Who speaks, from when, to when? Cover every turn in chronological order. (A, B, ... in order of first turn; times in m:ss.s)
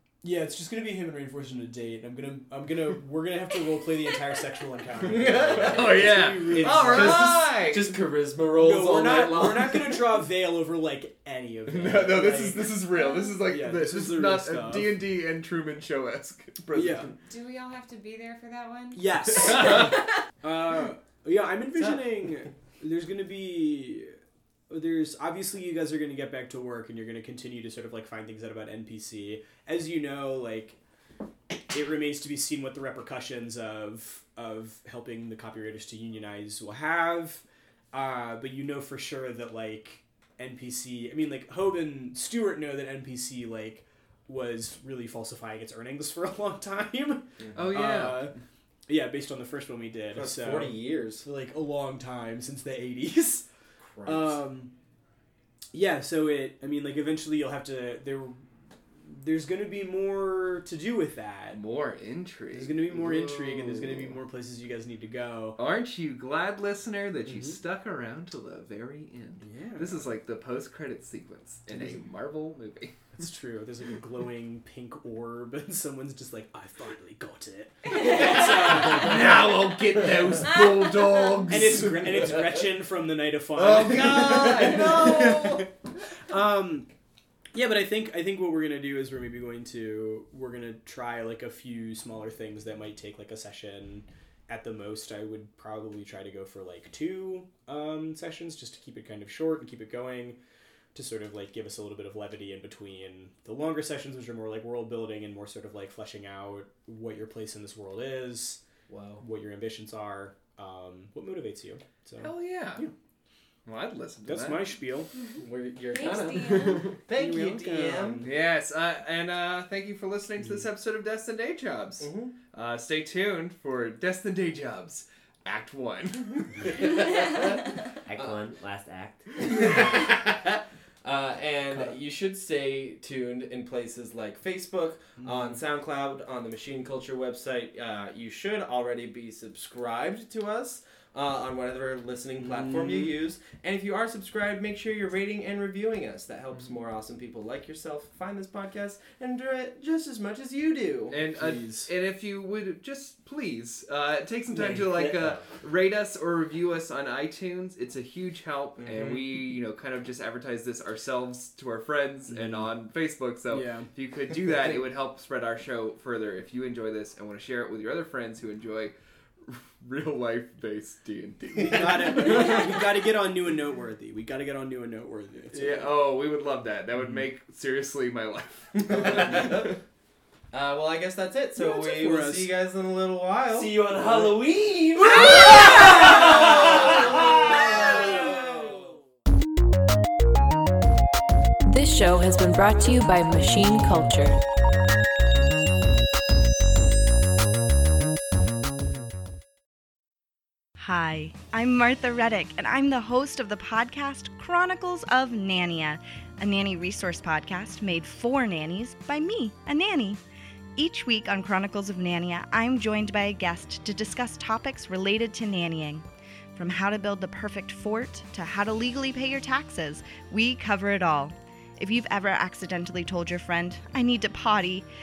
0:00.2-0:07.3 A
0:05.0-0:10.0 B
0:05.3-0:08.0 C
0:08.5-0:12.8 A
0:11.7-0:17.2 C
0:13.1-0:13.3 D
0:13.4-0:15.0 A
0:16.7-0:17.1 A
0:17.3-0:19.8 D
0:18.9-0:24.2 A
0:24.7-0:30.8 A
0:31.7-0:48.4 A
0:47.5-0:48.3 C
0:48.9-0:53.4 A
0:50.1-0:51.2 B
0:53.8-0:54.4 B
0:54.0-0:54.7 A
0:55.7-0:58.4 A
0:59.0-1:01.6 A
1:01.5-1:04.2 C
1:02.5-1:05.6 A
1:05.6-1:12.9 C
1:09.4-1:10.1 A
1:13.2-1:19.4 A
1:18.2-1:22.5 C
1:21.5-1:25.7 A
1:23.5-1:25.7 C
1:24.4-1:25.6 B
1:26.3-1:26.9 A
1:27.5-1:40.4 A
1:40.9-1:48.6 A
1:48.9-1:49.2 B
1:49.2-1:52.9 A
1:52.2-1:52.8 C
1:53.6-1:54.7 C
1:54.2-1:55.1 A
1:55.1-1:57.0 D
1:55.3-1:58.3 B
1:57.1-1:58.3 A
1:58.2-2:06.5 C
2:02.0-2:02.3 B
2:06.8-2:07.5 B
2:08.0-2:09.7 E
2:09.4-2:31.2 B
2:22.4-2:23.1 A
2:31.1-2:52.8 C
2:31.3-2:31.9 A
2:34.5-2:35.5 E
2:38.8-2:39.4 B
2:43.5-2:44.8 A
2:51.6-2:55.9 A
2:55.5-2:59.8 C
2:58.8-2:59.7 B
3:00.5-3:04.3 B
3:01.6-3:02.5 A
3:03.5-3:08.1 E
3:06.1-3:08.8 B
3:08.4-3:08.8 A
3:11.6-3:14.4 F
3:20.8-3:30.2 G
3:30.8-3:36.0 G
3:36.6-3:44.9 G